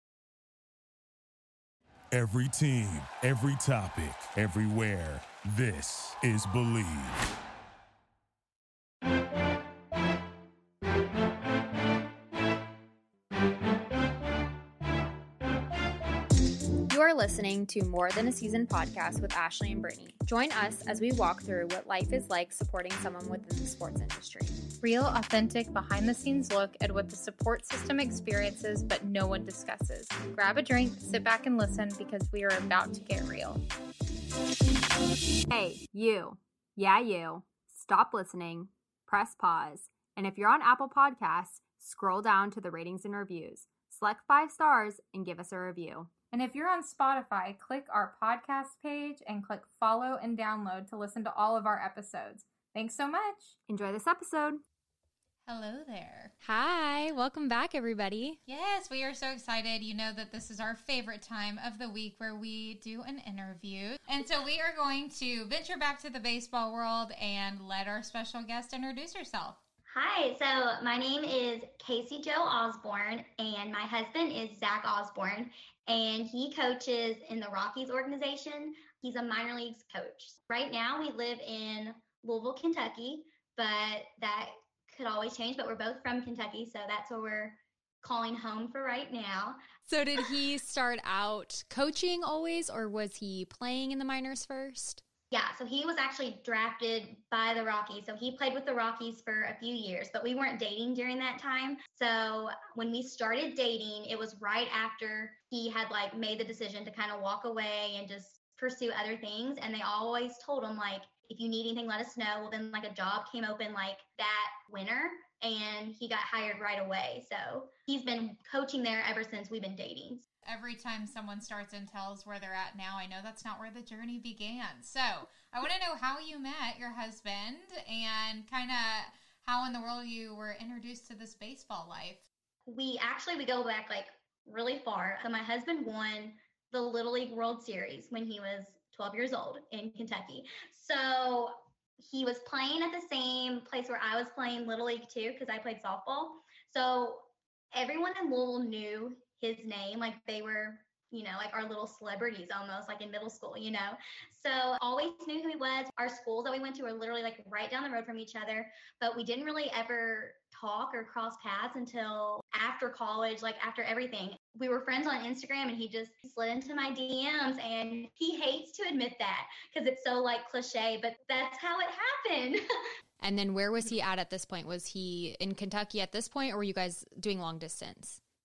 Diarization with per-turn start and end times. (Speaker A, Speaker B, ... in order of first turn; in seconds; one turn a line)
Speaker A: 2.1-7.2
Speaker B: 16.9-24.6
Speaker C: 24.8-33.6
Speaker B: 35.5-46.1
Speaker C: 46.3-53.5
Speaker B: 53.7-54.6
Speaker D: 55.5-56.3
Speaker B: 56.4-58.4
Speaker D: 58.5-69.6
Speaker E: 69.9-89.6
Speaker B: 89.8-95.0
Speaker E: 95.3-120.2
Speaker D: 120.4-132.2
Speaker E: 132.7-172.6
Speaker B: 173.2-178.2